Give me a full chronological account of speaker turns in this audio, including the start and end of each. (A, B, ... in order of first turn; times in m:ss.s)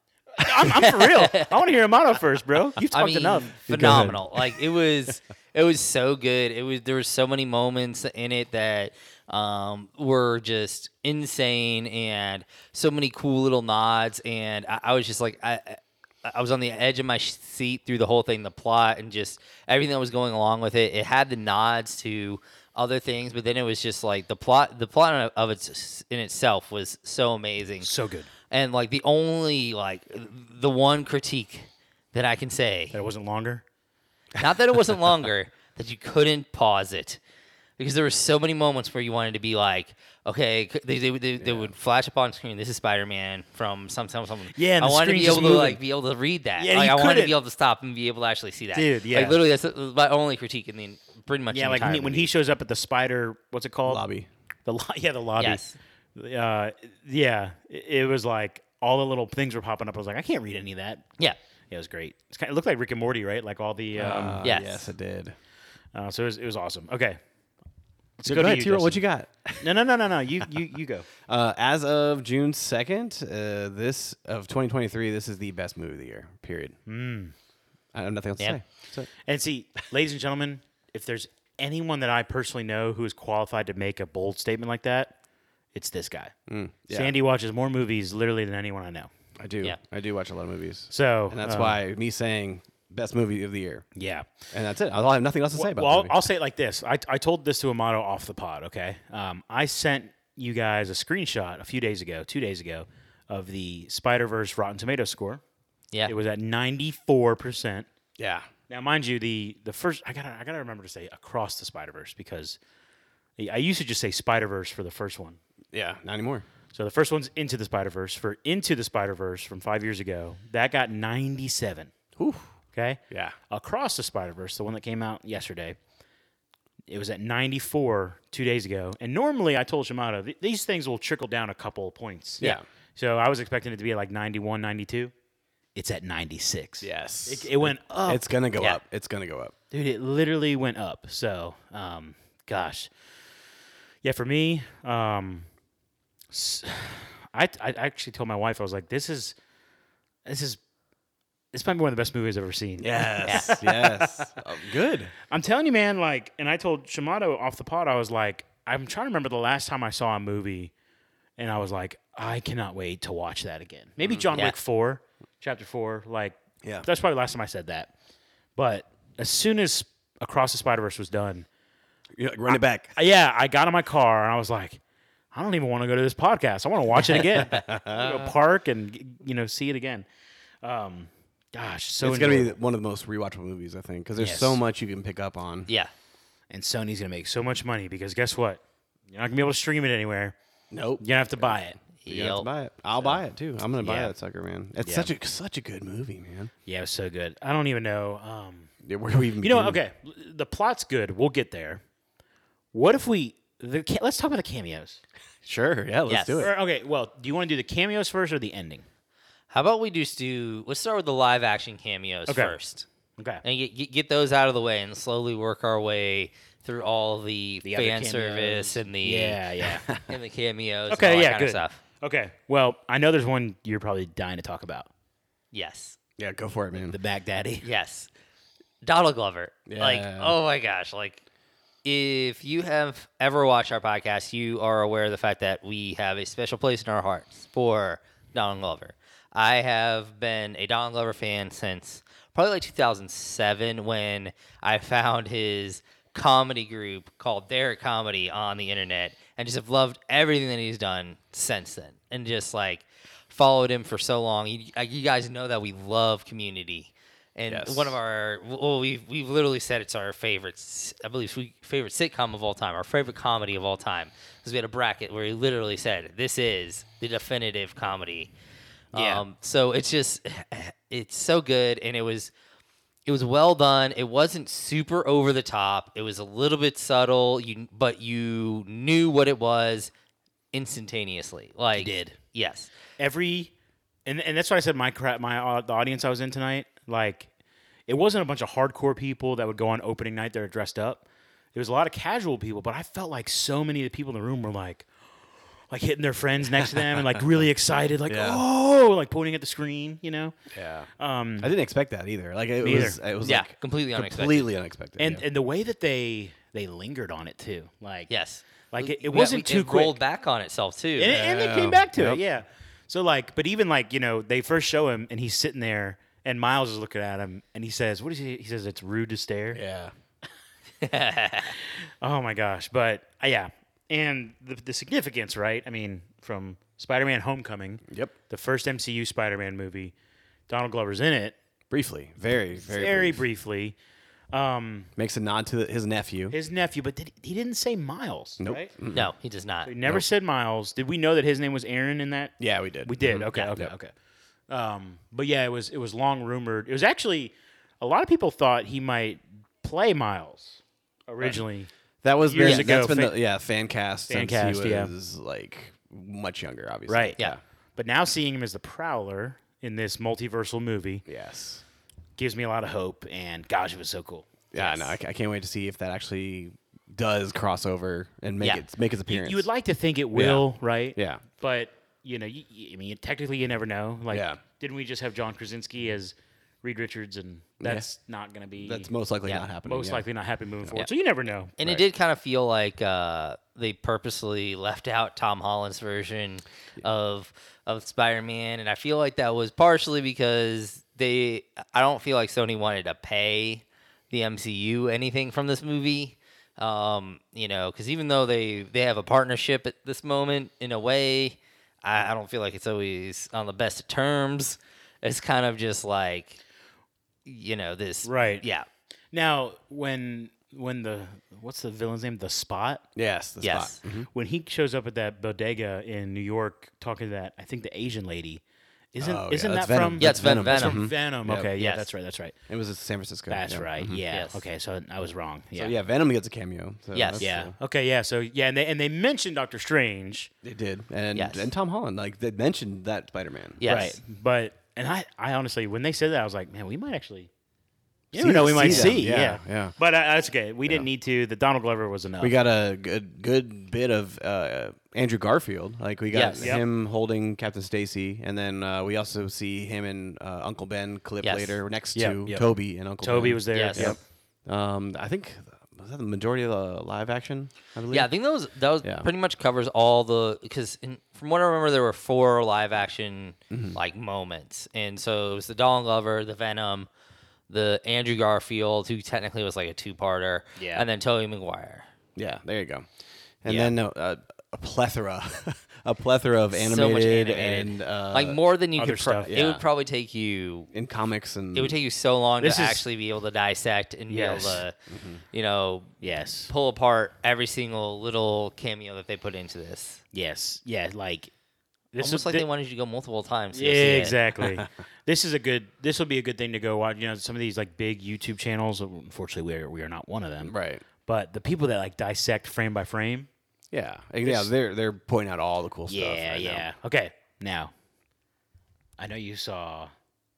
0:00.4-0:03.6 A
0:00.4-0:00.9 B
0:00.8-0:01.5 C
0:02.9-0:27.9 C
0:03.7-0:04.6 B
0:27.8-0:28.3 A
0:28.5-0:33.0 C
0:32.9-0:33.6 A
0:34.3-0:37.2 C
0:37.8-0:52.3 C
0:41.4-0:41.7 B
0:44.5-0:45.8 A
0:46.6-0:47.3 A
0:48.7-0:49.4 A
0:51.5-0:54.0 A
0:53.8-0:54.3 B
0:54.6-0:55.6 A
0:55.4-0:55.8 C
0:56.1-1:01.1 A
1:01.7-1:04.4 A
1:03.9-1:05.4 B
1:04.4-1:04.9 C
1:05.9-1:07.2 A
1:08.2-1:09.0 A
1:08.2-1:09.8 B
1:09.6-1:11.1 A
1:11.2-1:16.8 B
1:16.9-1:17.3 A
1:17.9-1:19.1 B
1:19.2-1:25.1 A
1:25.7-1:26.3 A
1:26.5-1:27.1 B
1:26.9-1:29.1 A
1:29.4-1:33.8 B
1:30.9-1:31.8 A
1:34.0-1:34.4 A
1:34.5-1:36.1 B
1:35.5-1:45.4 A
1:46.1-1:47.9 A
1:48.2-1:48.5 B
1:48.7-1:52.6 A
1:53.4-1:55.4 A
1:55.7-1:56.4 B
1:56.7-2:01.9 A
2:02.2-2:02.5 B
2:02.7-2:05.8 A
2:06.9-2:12.4 A
2:12.4-2:12.6 B
2:13.0-2:15.1 A
2:15.7-2:18.2 A
2:16.8-2:19.5 B
2:19.7-2:22.9 A
2:24.0-2:25.5 A
2:26.3-2:29.3 A
2:30.2-2:30.6 A
2:31.5-2:34.3 A
2:32.8-2:35.1 B
2:33.2-2:33.5 C
2:35.3-2:40.7 A
2:41.4-2:47.9 A
2:48.6-2:51.5 A
2:52.2-2:52.9 B
2:52.5-2:54.8 A
2:55.3-3:00.0 A
2:57.3-2:58.3 B
3:00.6-3:02.6 A
3:02.0-3:05.7 B
3:04.2-3:04.6 A
3:06.5-3:10.3 A
3:10.7-3:11.6 B
3:11.0-3:11.8 A
3:12.0-3:12.5 C
3:12.1-3:16.5 B
3:13.8-3:14.1 A
3:14.8-3:15.1 A
3:16.6-3:18.7 A
3:18.8-3:19.8 B
3:19.4-3:21.8 A
3:22.7-3:25.0 A
3:25.4-3:26.5 B
3:26.1-3:26.5 C
3:26.4-3:28.8 A
3:29.5-3:32.9 C
3:32.3-3:32.6 A
3:33.2-3:33.4 A
3:33.4-3:39.4 C
3:37.6-3:39.9 A
3:39.6-3:40.0 B
3:40.0-3:41.8 C
3:40.9-3:44.9 A
3:45.5-3:46.0 C
3:46.2-3:47.0 B
3:46.8-3:47.6 A
3:47.6-3:48.1 C
3:48.8-3:51.2 C
3:49.7-3:50.4 B
3:51.8-4:28.3 C
4:17.5-4:18.0 B
4:28.9-4:32.3 C
4:28.9-4:29.2 A
4:33.0-4:39.9 C
4:40.5-4:42.7 C
4:41.8-4:42.2 A
4:43.0-4:43.5 A
4:44.0-4:47.3 A
4:47.9-4:54.9 A
4:55.7-5:00.4 A
4:56.7-4:57.2 B
4:58.1-4:58.4 B
5:00.5-5:00.9 B
5:01.0-5:01.5 A
5:01.4-5:05.2 B
5:02.6-5:03.0 A
5:03.2-5:04.5 C
5:05.0-5:08.1 A
5:08.1-5:11.2 C
5:08.7-5:10.0 A
5:11.0-5:19.6 A
5:11.1-5:12.2 B
5:19.5-5:19.9 B
5:20.8-5:21.6 C
5:22.0-5:29.9 A
5:27.9-5:28.1 B
5:30.5-5:31.3 A
5:31.7-5:33.2 B
5:32.5-5:33.7 A
5:34.3-5:34.9 A
5:35.0-5:36.3 B
5:36.3-5:38.7 A
5:38.4-5:39.1 B
5:38.9-5:39.7 C
5:39.6-5:43.9 A
5:42.4-5:43.7 B
5:44.5-5:51.7 A
5:52.0-5:57.4 B
5:52.2-5:53.2 A
5:52.4-5:52.7 C
5:54.1-5:54.9 A
5:56.9-5:57.2 A
5:57.8-6:01.0 A
6:01.1-6:01.6 B
6:02.2-6:04.7 A
6:04.5-6:09.5 B
6:09.1-6:18.9 A
6:10.1-6:11.2 B
6:14.1-6:14.4 B
6:17.6-6:17.9 B
6:18.6-6:20.0 B
6:19.6-6:21.8 A
6:21.6-6:46.4 C
6:47.2-6:48.7 C
6:48.0-6:48.4 A
6:49.1-6:52.8 A
6:53.0-6:54.1 B
6:53.4-6:53.8 C
6:54.1-6:58.4 A
6:58.9-7:02.4 A
6:59.0-7:01.5 B
7:00.0-7:00.8 C
7:01.6-7:01.9 C
7:02.5-7:04.0 B
7:03.3-7:05.7 A
7:04.1-7:04.4 C
7:05.5-7:07.5 B
7:06.9-7:07.2 C
7:07.2-7:10.3 A
7:10.4-7:13.6 B
7:11.1-7:11.5 C
7:13.6-7:14.0 C
7:13.6-7:17.3 A
7:18.1-7:22.4 A
7:18.1-7:19.7 B
7:18.6-7:18.9 C
7:22.2-7:38.1 B
7:26.1-7:26.5 C
7:31.2-7:31.6 C
7:31.9-7:34.0 A
7:33.5-7:33.9 C
7:37.9-7:46.9 C
7:38.8-7:39.1 B
7:43.5-7:43.8 B
7:47.5-7:51.9 C
7:50.6-7:50.8 A
7:52.2-7:52.8 B
7:53.4-7:58.4 B
7:56.5-8:00.7 C
7:58.8-7:59.3 A
7:59.2-7:59.6 B
8:00.7-8:01.8 B
8:01.5-8:04.7 C
8:02.4-8:02.8 A
8:04.1-8:04.6 A
8:04.9-8:05.2 B
8:05.3-8:05.9 C
8:06.0-8:06.5 A
8:06.5-8:10.0 C
8:10.1-8:11.3 A
8:11.9-8:12.4 A
8:12.0-8:14.2 C
8:13.5-8:20.5 A
8:14.4-8:14.7 B
8:20.4-8:20.8 B
8:21.0-8:23.3 A
8:23.7-8:26.7 B
8:24.2-8:24.5 A
8:25.9-8:27.7 A
8:29.0-8:29.9 A